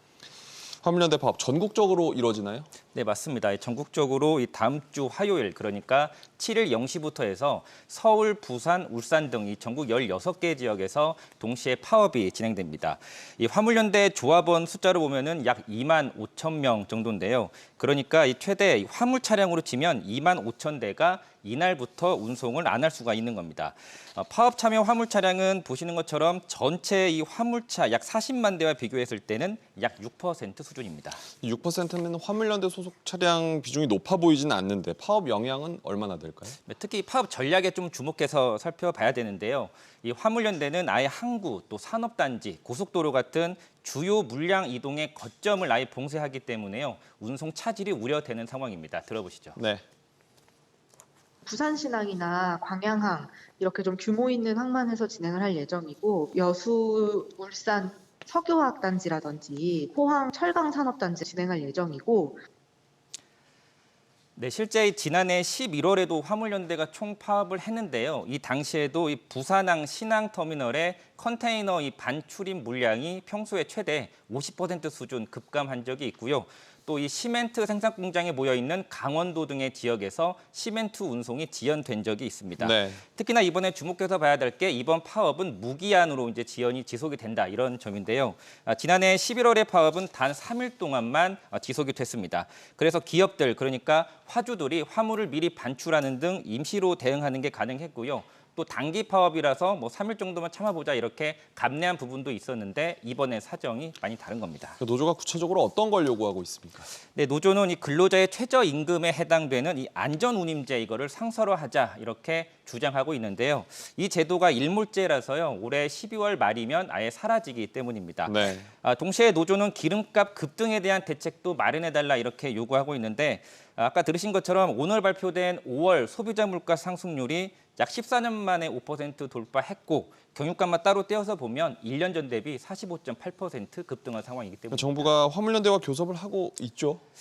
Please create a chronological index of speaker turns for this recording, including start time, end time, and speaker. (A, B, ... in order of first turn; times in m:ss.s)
0:00.8-0:02.7 A
0:02.9-0:31.2 B
0:31.4-0:36.6 A
0:36.6-0:49.6 B
0:49.6-0:49.8 A
0:51.5-1:02.4 C
1:04.4-1:44.8 B
1:22.6-1:23.0 A
1:44.8-1:46.9 A
1:47.2-2:15.1 B
1:58.3-1:58.7 A
2:14.7-2:17.0 A